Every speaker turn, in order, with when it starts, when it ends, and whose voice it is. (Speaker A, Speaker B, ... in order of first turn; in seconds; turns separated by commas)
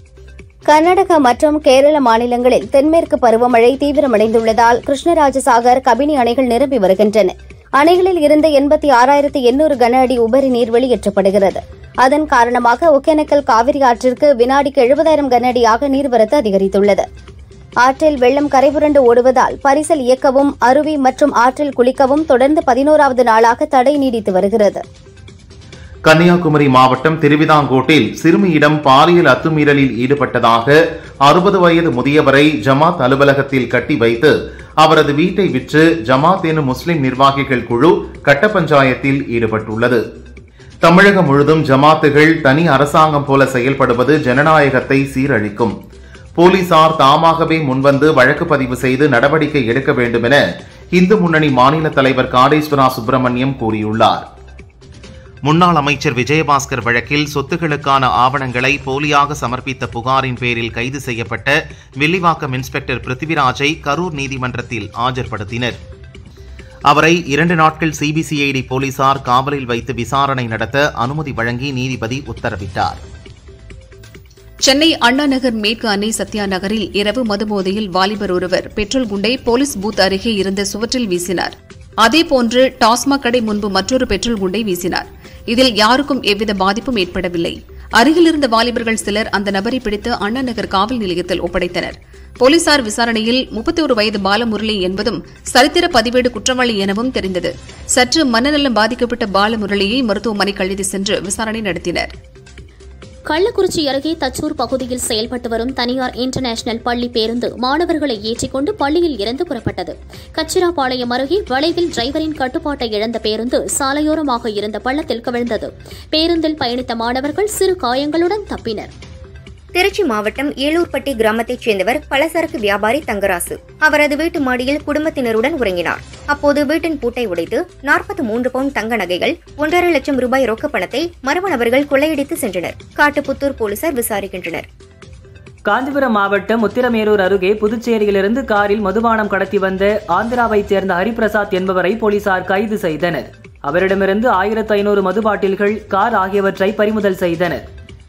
Speaker A: 0.7-17.0, Speaker A: 17.8-24.8, Speaker B: 26.1-40.0, Speaker B: 40.8-45.7, Speaker B: 46.4-50.4, Speaker B: 50.9-54.2, Speaker B: 55.5-65.8, Speaker B: 66.9-73.0, Speaker C: 74.7-102.1, Speaker D: 103.3-118.9, Speaker E: 119.7-134.7, Speaker F: 135.7-147.6